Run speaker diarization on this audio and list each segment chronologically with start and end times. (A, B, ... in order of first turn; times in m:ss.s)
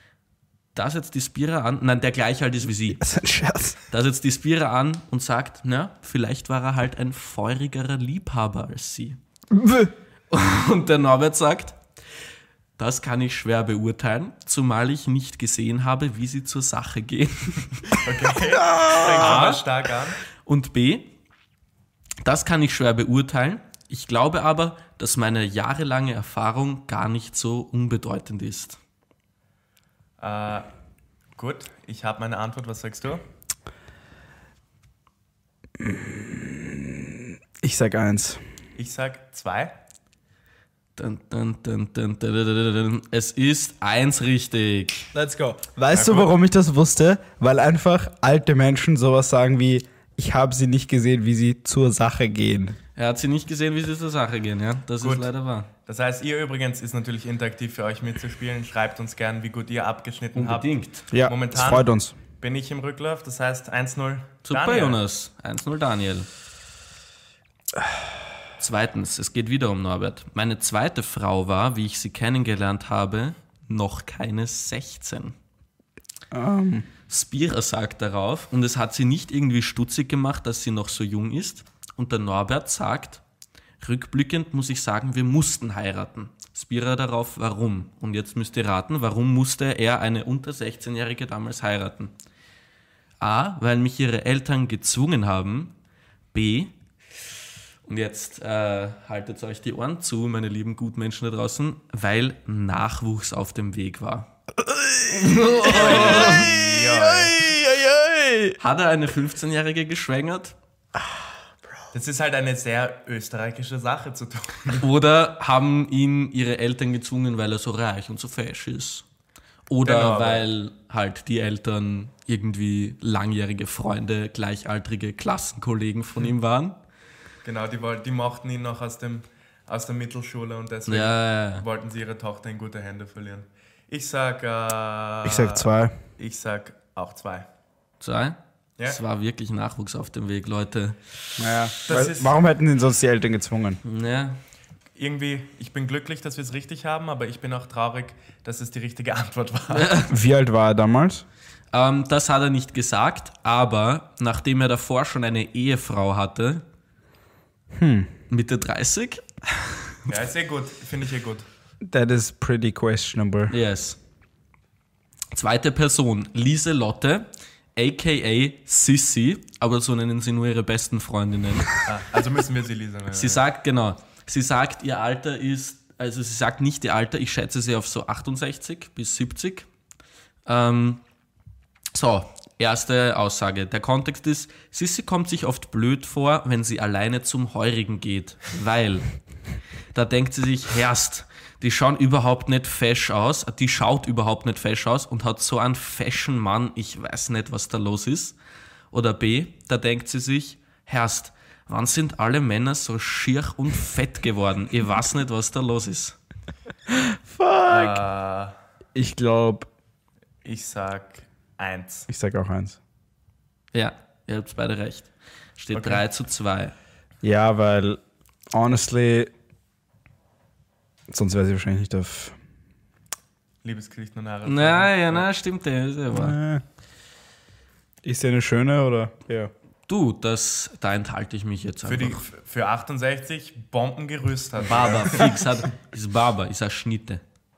0:00.7-0:03.0 A
0:02.9-0:03.8 B
0:03.9-0:09.2 A
0:09.5-0:09.9 B
0:10.3-0:11.8 A
0:12.8-0:18.0 A
0:17.9-0:20.2 C
0:18.5-0:19.4 B
0:19.0-0:19.6 A
0:20.2-0:21.1 A
0:22.2-0:28.8 A
0:30.2-0:30.7 C
0:31.4-0:33.2 C
0:35.8-0:38.4 B
0:38.8-0:39.7 C
0:41.0-0:45.1 A
0:45.1-0:52.8 B
0:45.9-0:46.3 C
0:53.0-0:55.7 A
0:55.0-0:55.3 C
0:55.8-1:01.9 C
1:00.3-1:01.0 A
1:01.1-1:02.1 B
1:02.4-1:05.0 C
1:04.4-1:06.3 A
1:08.6-1:15.4 A
1:16.3-1:16.9 B
1:17.1-1:23.2 A
1:23.8-1:32.1 A
1:33.2-1:35.7 A
1:36.3-1:36.7 A
1:37.8-1:44.3 A
1:44.6-1:48.6 B
1:45.1-1:46.5 A
1:45.6-1:47.4 C
1:48.6-1:50.6 A
1:51.9-1:54.8 C
1:54.8-1:59.0 A
1:59.7-2:06.8 A
1:59.8-2:00.5 C
2:07.4-2:17.5 C
2:10.9-2:11.6 A
2:15.2-2:16.0 B
2:18.0-2:21.0 A
2:21.4-2:23.8 B
2:21.9-2:22.4 C
2:23.8-2:24.4 A
2:25.0-2:30.0 C
2:29.7-2:30.1 A
2:30.1-2:31.2 B
2:31.7-2:36.6 A
2:37.7-2:38.1 B
2:38.3-2:40.1 A
2:40.1-2:41.5 C
2:41.8-2:43.5 B
2:43.5-2:44.0 A
2:45.3-2:51.7 A
2:51.8-2:53.4 C
2:53.1-2:59.7 A
3:00.4-3:01.0 A
3:01.9-3:09.1 A
3:09.9-3:18.4 A
3:18.9-3:26.2 A
3:26.9-3:28.0 B
3:27.6-3:28.5 C
3:28.9-3:29.7 B
3:30.4-3:32.1 C
3:32.1-3:32.8 B
3:33.7-3:36.7 A
3:35.7-3:36.0 C
3:37.2-3:38.0 B
3:38.5-3:39.3 B
3:41.1-3:42.4 B
3:43.6-3:45.3 C
3:44.4-3:46.4 A
3:46.1-3:46.6 B
3:48.0-3:49.5 B
3:49.9-3:52.2 A
3:51.8-3:55.4 C
3:54.6-3:57.2 A